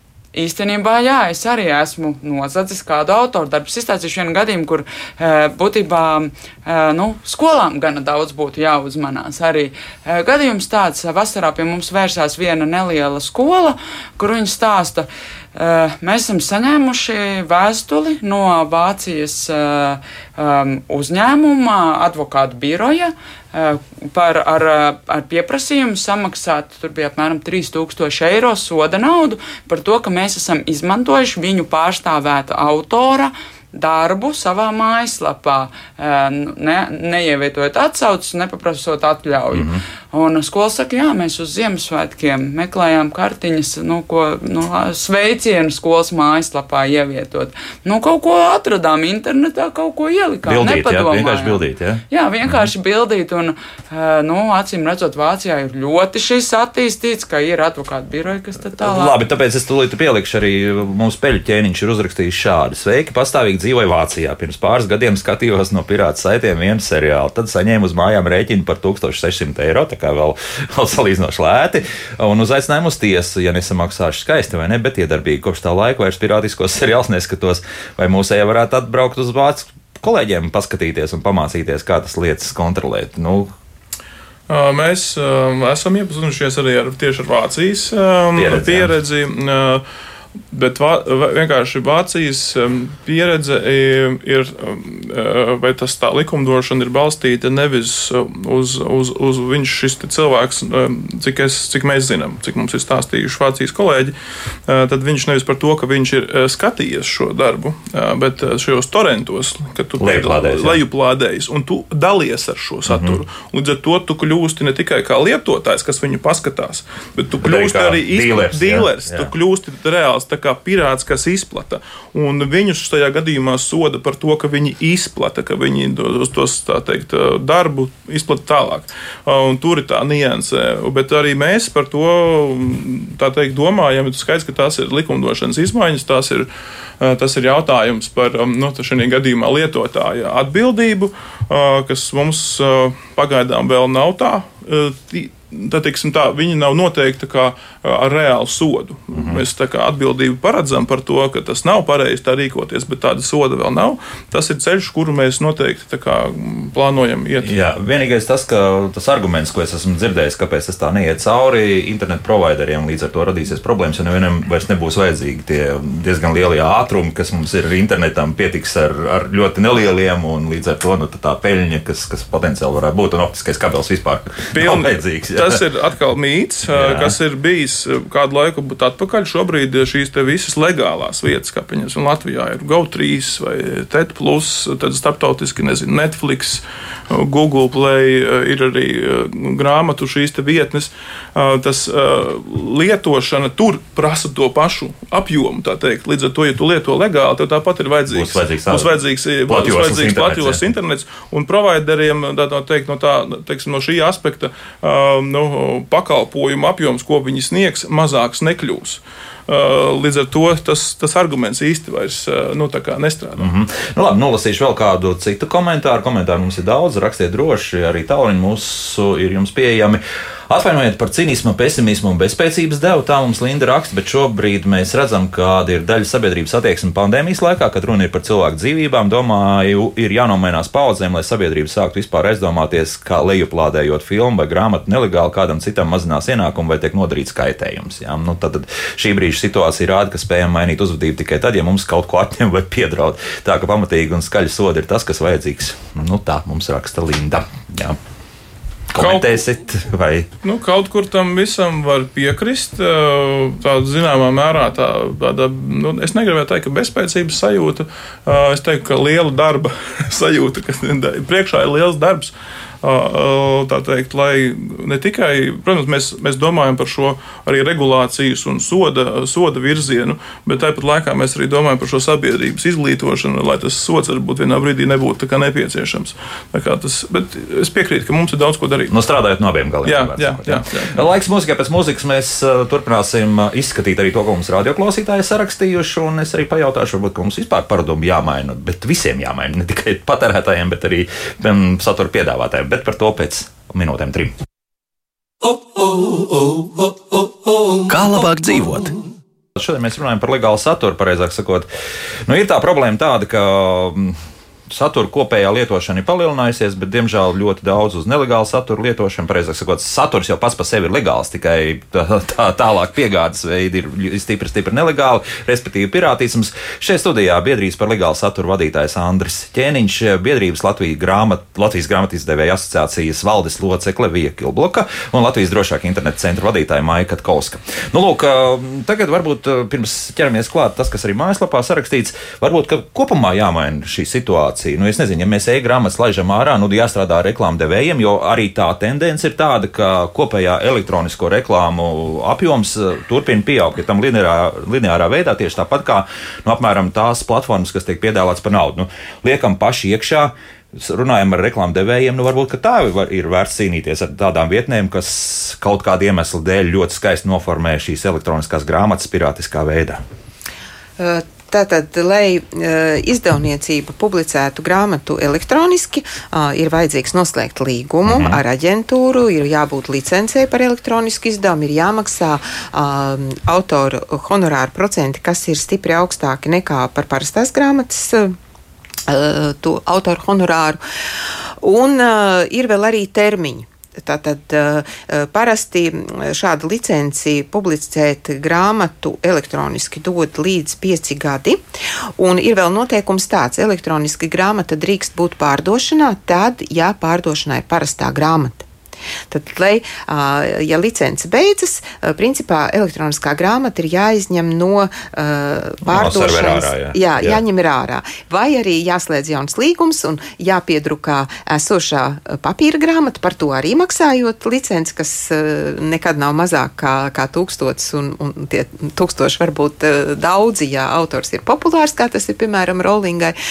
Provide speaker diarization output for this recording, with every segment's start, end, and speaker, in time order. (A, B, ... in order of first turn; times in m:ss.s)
0:00.3-0:59.2 A
0:39.5-0:39.8 B
0:50.5-0:52.7 B
0:58.8-1:23.5 B
1:24.5-1:29.8 C
1:28.4-1:28.9 B
1:30.5-1:44.1 C
1:44.7-2:16.5 C
1:50.0-1:50.8 B
1:52.9-1:53.2 B
1:57.4-1:59.3 B
2:17.0-2:37.5 C
2:29.1-2:29.4 B
2:37.4-2:55.6 B
2:54.5-3:33.5 C
2:56.7-2:57.2 B
3:18.1-3:19.0 B
3:19.5-3:20.6 B
3:33.4-4:08.0 B
4:08.9-4:10.3 B
4:09.0-4:09.4 C
4:10.4-4:39.0 C
4:38.9-4:54.4 B
4:39.8-4:41.1 C
4:55.8-4:59.0 D
4:59.6-5:01.7 B
5:02.3-6:00.0 B
6:01.0-6:18.4 E
6:08.1-6:08.4 B
6:19.1-6:20.8 E
6:21.6-6:31.6 E
6:32.2-6:38.7 E
6:39.3-7:03.4 E
6:45.9-6:47.4 B